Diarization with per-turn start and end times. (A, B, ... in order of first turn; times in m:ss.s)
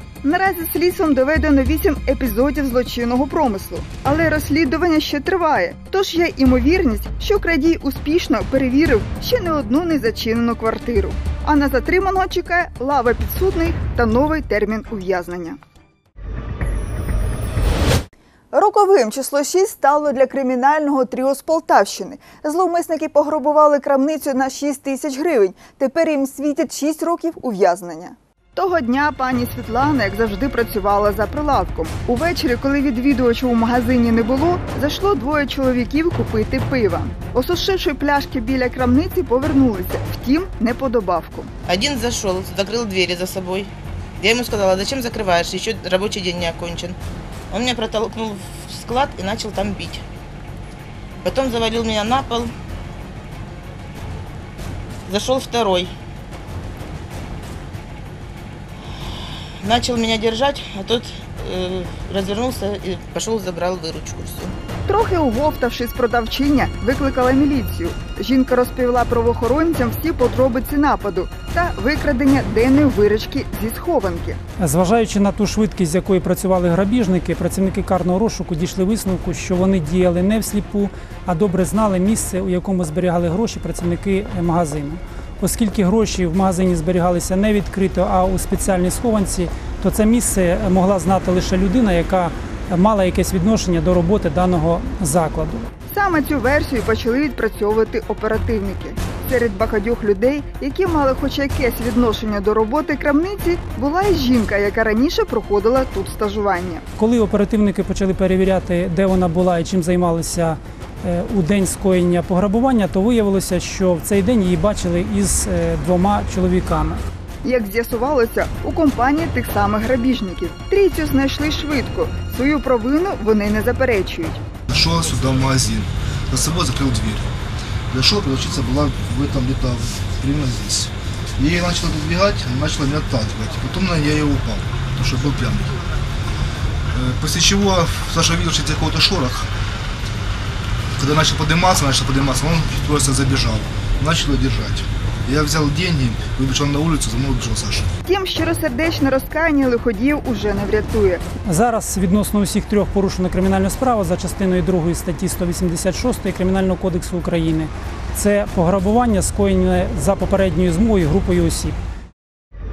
0:00.2-0:15.6 A
0:18.5-0:41.5 A
0:41.7-0:47.0 B
0:47.5-0:50.0 B
0:51.2-0:52.5 B
0:55.1-0:55.9 B
0:59.6-1:04.5 B
1:04.9-1:14.4 A
1:14.6-1:35.7 C
1:35.9-1:46.8 A
1:47.0-1:57.0 C
1:57.4-2:04.4 A
2:04.7-2:07.3 D
2:07.9-2:15.8 D
2:16.9-2:19.5 D
2:21.0-2:27.9 D
2:28.0-2:31.2 A
2:31.4-2:41.8 C